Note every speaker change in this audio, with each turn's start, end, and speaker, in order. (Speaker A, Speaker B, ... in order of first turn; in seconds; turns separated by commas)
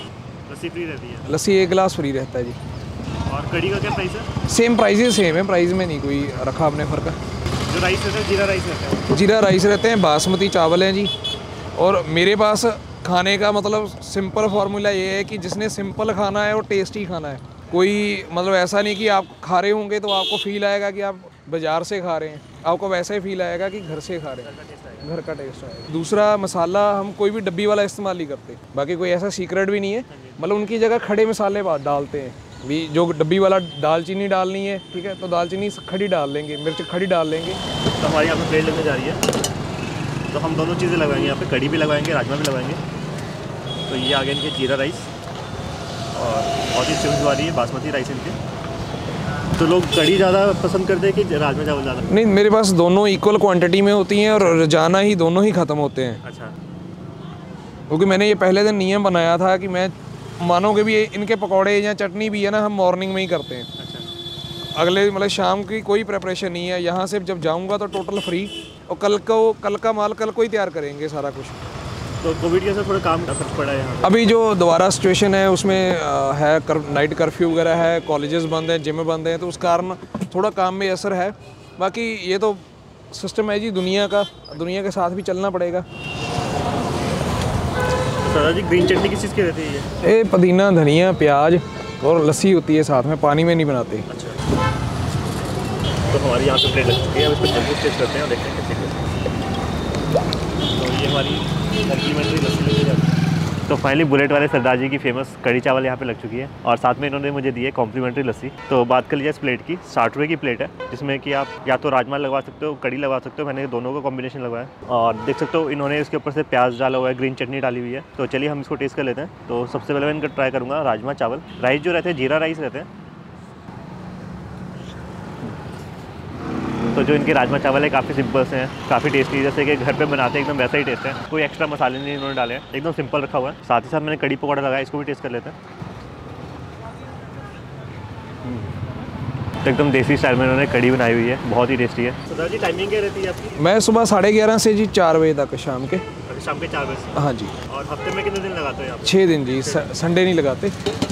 Speaker A: 0.5-1.3, Speaker B: 1.2-2.6, Speaker A: 3.3-4.3, Speaker B: 4.4-7.2, Speaker A: 7.7-9.1, Speaker B: 9.1-11.1, Speaker B: 11.8-24.5, Speaker A: 24.4-25.1, Speaker B: 25.0-37.6, Speaker A: 30.1-30.4, Speaker A: 38.0-39.2, Speaker A: 40.3-42.8, Speaker A: 43.9-45.1, Speaker A: 46.1-48.4, Speaker A: 49.5-52.1, Speaker B: 52.1-56.2, Speaker A: 56.2-56.5, Speaker B: 57.9-63.7, Speaker A: 63.8-64.1, Speaker B: 64.8-71.6, Speaker A: 72.2-74.2, Speaker B: 74.0-85.8, Speaker A: 88.2-89.9, Speaker B: 90.0-94.1, Speaker A: 94.1-94.4, Speaker A: 96.1-99.1, Speaker A: 100.7-103.1, Speaker A: 103.7-122.9, Speaker A: 126.9-135.5, Speaker A: 138.4-138.7, Speaker A: 139.6-143.5, Speaker B: 143.6-146.0, Speaker A: 146.2-149.9, Speaker B: 147.1-147.5, Speaker B: 149.0-150.7